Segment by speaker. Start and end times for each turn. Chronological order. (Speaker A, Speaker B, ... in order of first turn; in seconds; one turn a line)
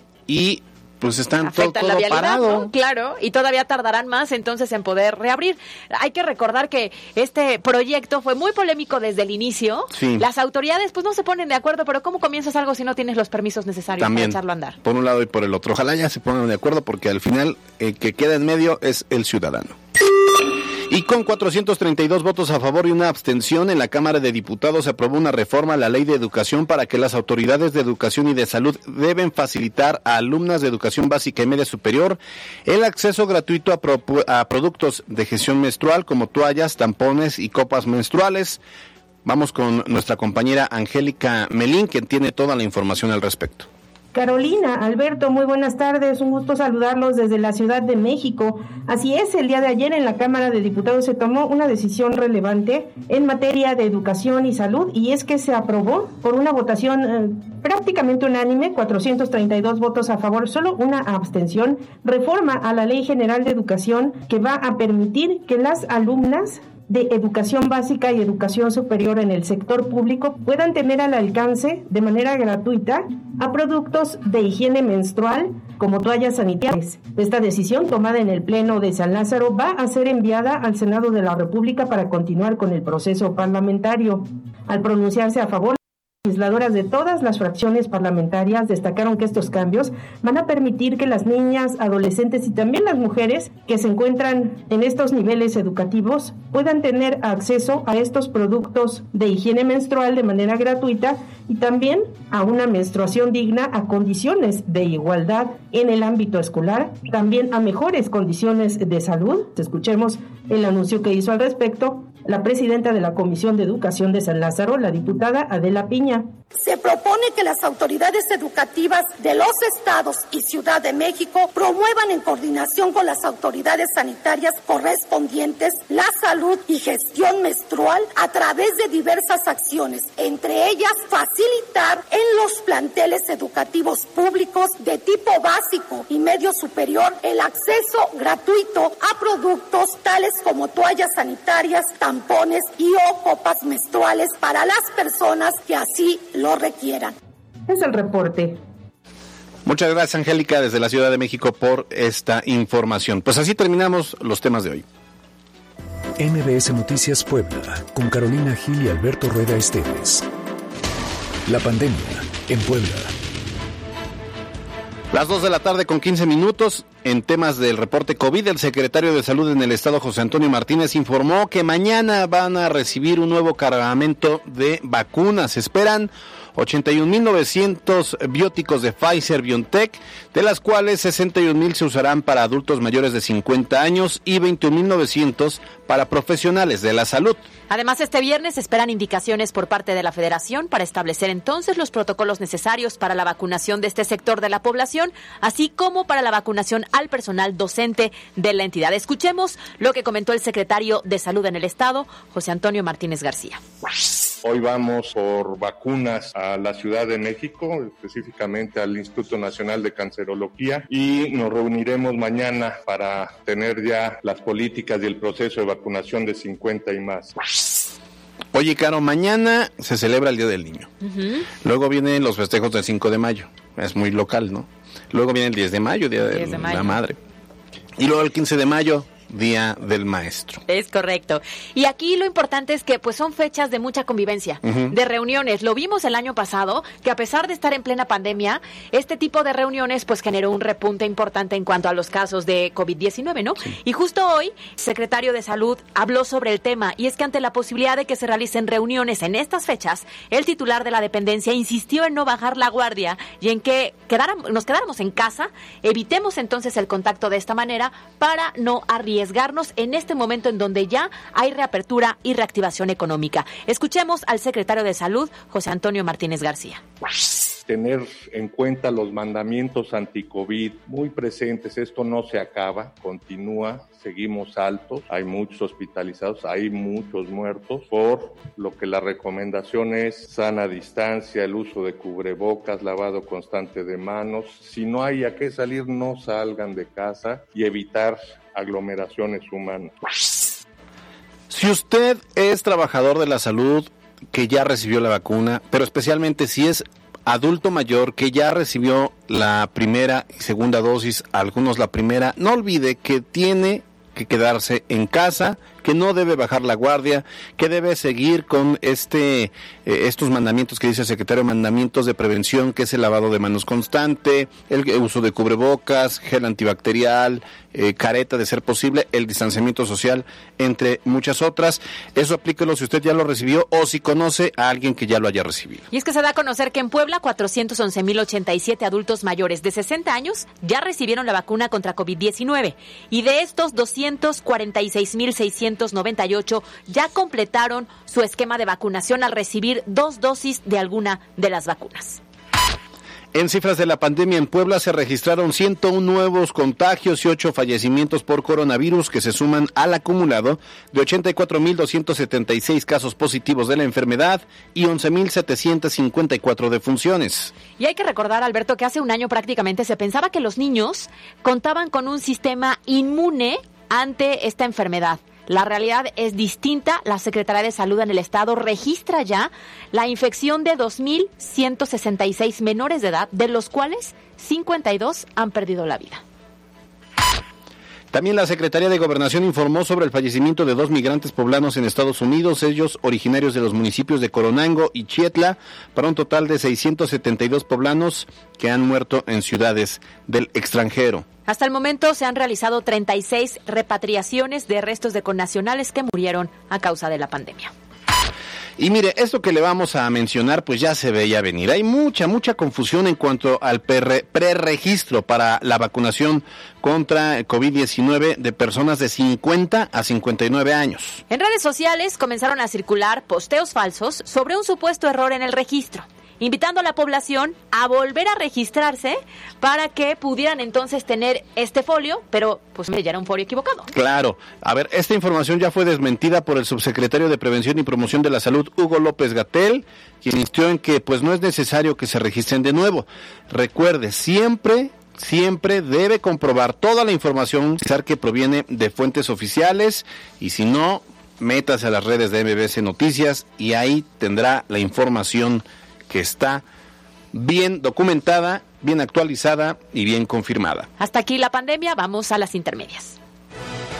Speaker A: 0.3-2.7
Speaker B: 1.4-14.8
Speaker A: 9.9-10.3
Speaker A: 14.0-19.8
Speaker A: 20.9-38.6
Speaker A: 39.2-43.7
Speaker C: 44.1-116.3
Speaker D: 116.5-147.1
Speaker C: 147.7-148.6
Speaker A: 149.6-154.8
Speaker E: 156.2-160.2
Speaker E: 161.4-163.1
Speaker A: 165.1-187.4
Speaker B: 187.7-203.6
Speaker F: 204.4-217.3
Speaker A: 218.5-220.9
Speaker B: 221.0-221.5
Speaker A: 221.6-227.2
Speaker B: 226.3-227.0
Speaker A: 228.0-230.6
Speaker B: 230.7-266.8
Speaker A: 234.6-234.9
Speaker F: 267.7-289.9
Speaker A: 291.5-325.9
Speaker B: 325.9-342.2
Speaker A: 343.3-357.5
Speaker B: 357.8-376.2
Speaker A: 378.1-391.2
Speaker B: 391.5-397.7
Speaker A: 398.8-411.2
Speaker B: 411.3-423.9
Speaker A: 423.9-446.6
Speaker A: 447.3-450.9
Speaker B: 451.0-453.2